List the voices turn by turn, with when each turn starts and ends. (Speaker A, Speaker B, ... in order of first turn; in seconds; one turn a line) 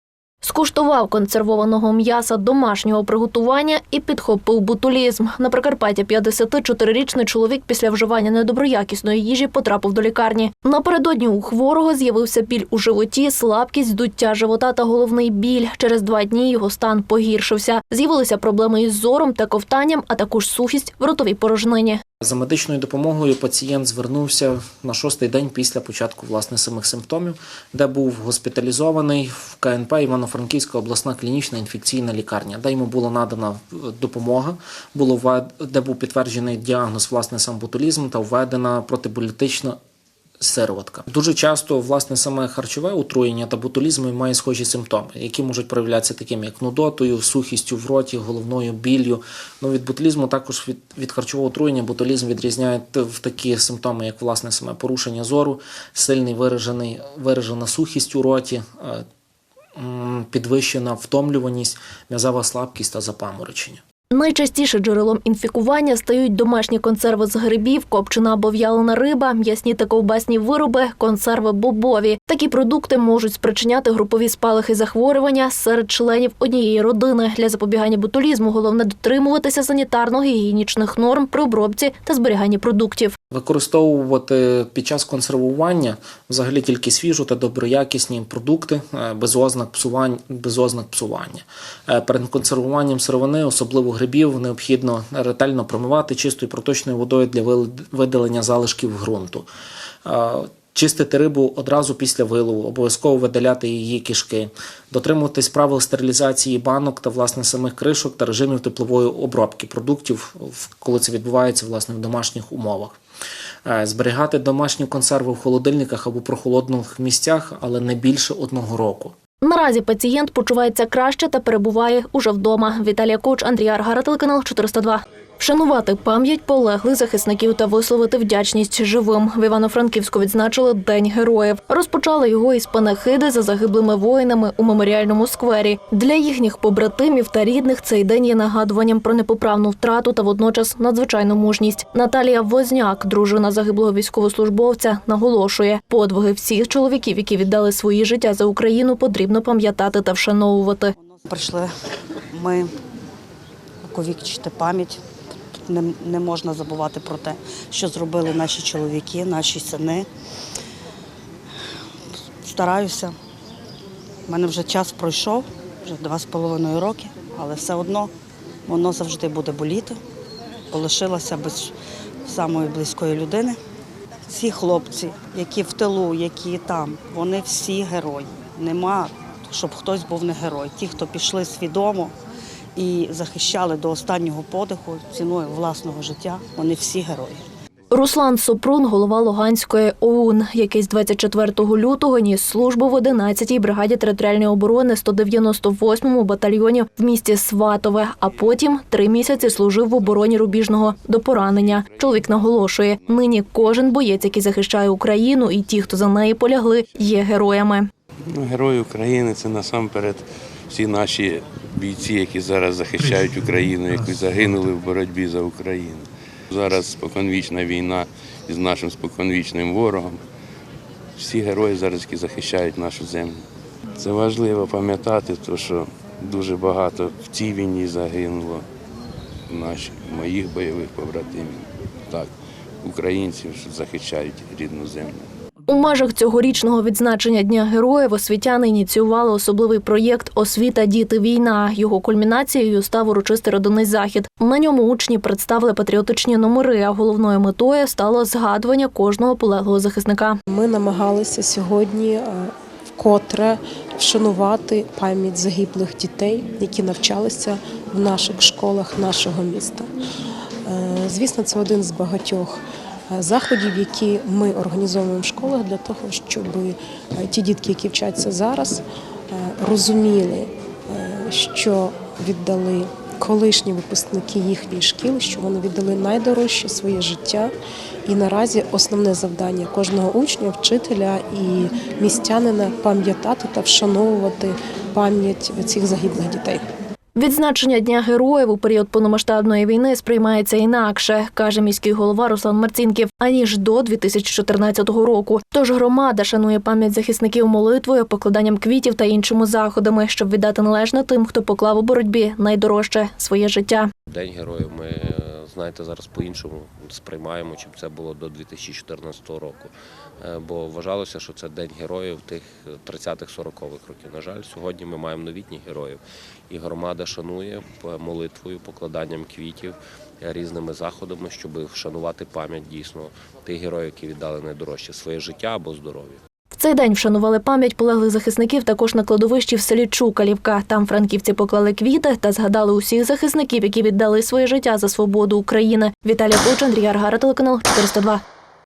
Speaker A: 0.4-22.0
Speaker B: 22.2-39.8
Speaker B: 40.4-59.0
Speaker B: 59.8-63.8
Speaker A: 64.1-83.2
Speaker B: 83.3-99.5
Speaker B: 100.0-113.0
Speaker B: 113.7-119.1
Speaker A: 119.4-150.9
Speaker C: 151.1-151.7
Speaker C: 152.3-152.7
Speaker C: 153.9-155.0
Speaker C: 155.7-160.1
Speaker C: 162.4-163.2
Speaker C: 164.3-168.1
Speaker C: 168.7-170.0
Speaker C: 170.7-171.7
Speaker C: 172.2-173.6
Speaker C: 174.3-182.1
Speaker C: 182.8-187.5
Speaker A: 187.9-207.9
Speaker D: 201.4-203.0
Speaker D: 208.3-220.2
Speaker D: 221.2-223.4
Speaker D: 224.0-228.6
Speaker D: 229.5-232.3
Speaker D: 232.8-235.3
Speaker A: 235.7-250.4
Speaker E: 250.5-259.9
Speaker E: 260.7-277.5
Speaker E: 278.1-286.6
Speaker A: 287.2-303.9
Speaker F: 304.1-326.2
Speaker A: 326.6-338.2